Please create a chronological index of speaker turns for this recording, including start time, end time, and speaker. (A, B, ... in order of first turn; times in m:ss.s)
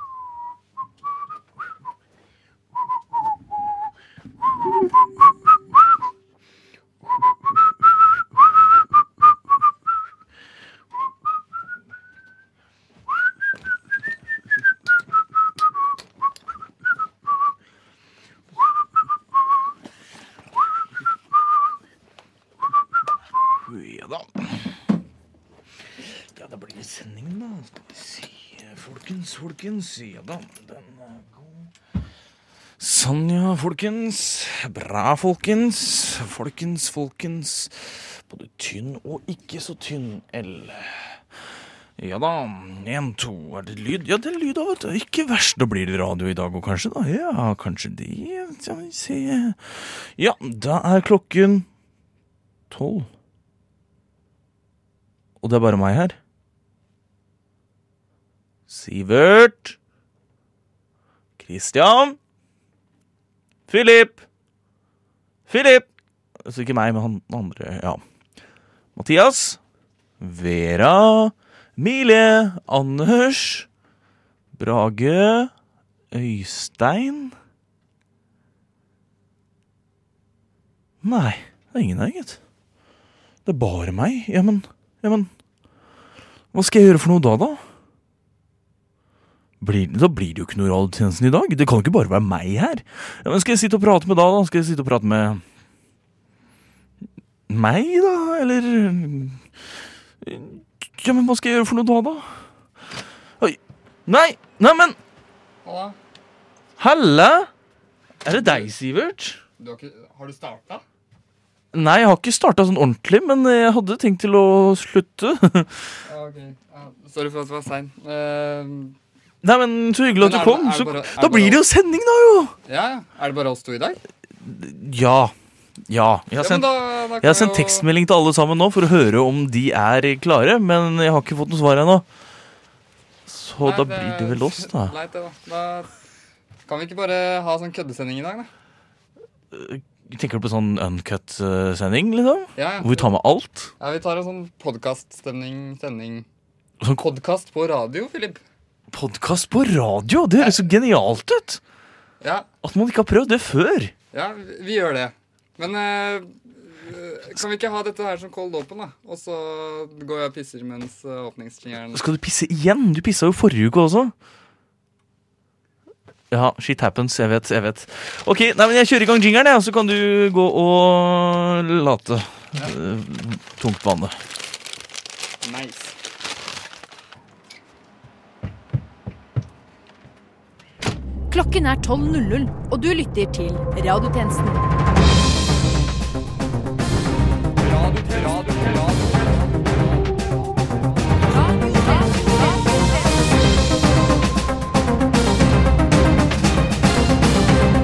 0:23.6-0:24.7 A
0:26.0-0:31.7 A
0:32.8-0:41.2 A
0:42.0-0:51.7 A
0:52.7-0:53.1 A
0:55.4-0:56.2 A
0:58.7-0:59.8 A
1:01.4-1:02.2 A
1:03.7-1:04.2 A
1:05.5-1:05.9 A
1:06.4-1:08.0 A
1:09.0-1:09.6 A
1:10.2-1:13.7 A
1:14.5-1:15.5 A
1:16.1-1:17.3 A
1:21.0-1:22.4 A
1:23.4-1:25.3 A
1:26.5-1:27.6 A
1:29.6-1:35.4 A
1:37.5-1:39.4 A
1:40.2-1:42.4 A
1:43.4-1:45.0 A
1:45.6-1:46.0 B
1:46.8-1:47.5 A
1:48.2-1:49.4 A
1:49.6-1:50.8 B
1:51.7-1:55.8 A
1:56.0-1:59.0 B
1:59.4-2:02.6 A
2:00.2-2:01.6 B
2:02.7-2:04.0 B
2:04.4-2:05.3 A
2:05.9-2:12.0 A
2:06.4-2:07.8 B
2:13.2-2:14.9 A
2:13.6-2:15.9 B
2:16.6-2:18.5 B
2:19.5-2:23.7 A
2:22.6-2:23.1 B
2:23.8-2:26.2 B
2:27.0-2:28.4 B
2:28.9-2:31.6 A
2:32.2-2:32.5 B
2:32.6-2:33.9 A
2:34.1-2:42.0 B
2:41.9-2:44.1 A
2:46.3-2:54.2 A
2:55.4-2:55.9 B
3:01.3-3:04.7 C
3:07.6-3:09.3 B
3:11.4-3:12.7 C